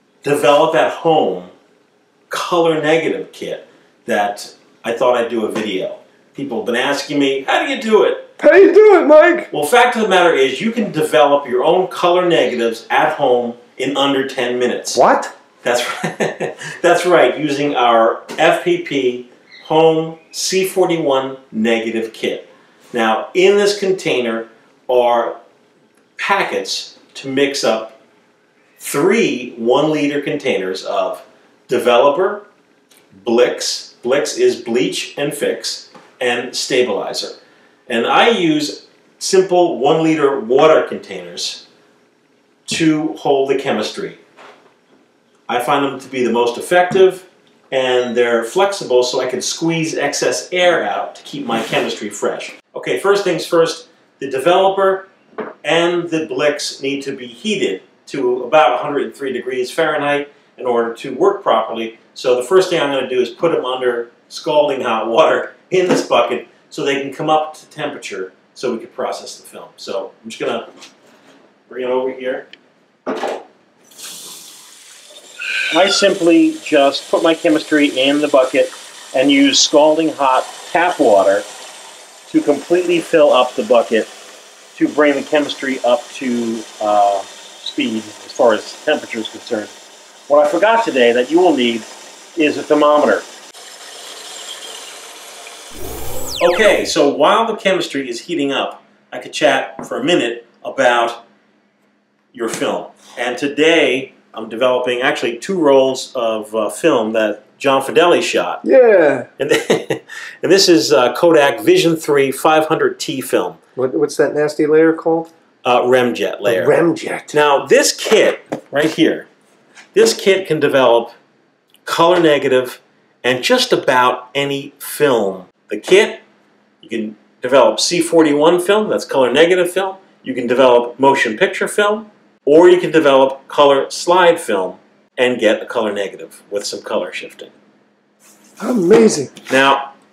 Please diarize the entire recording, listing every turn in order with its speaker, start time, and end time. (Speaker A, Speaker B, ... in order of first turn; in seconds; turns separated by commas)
Speaker A: 0.2-1.5, Speaker A: 2.3-8.3, Speaker B: 8.4-9.5, Speaker A: 9.5-15.0, Speaker B: 14.9-15.3, Speaker A: 15.6-25.4, Speaker A: 26.2-28.0, Speaker A: 28.8-32.5, Speaker A: 33.2-37.4, Speaker A: 37.9-41.6, Speaker A: 42.7-44.2, Speaker A: 45.5-55.1, Speaker A: 55.6-70.7, Speaker A: 71.7-72.5, Speaker A: 75.7-81.5, Speaker A: 82.3-84.1, Speaker A: 84.8-89.7, Speaker A: 90.3-93.2, Speaker A: 96.4-101.2, Speaker A: 102.3-108.6, Speaker B: 108.6-109.3, Speaker A: 109.4-113.6, Speaker B: 113.8-115.3, Speaker A: 115.6-116.7, Speaker B: 116.5-117.4, Speaker A: 117.3-119.3, Speaker A: 119.9-121.2, Speaker A: 121.8-126.2, Speaker A: 126.8-137.5, Speaker B: 138.6-139.3, Speaker A: 139.5-139.9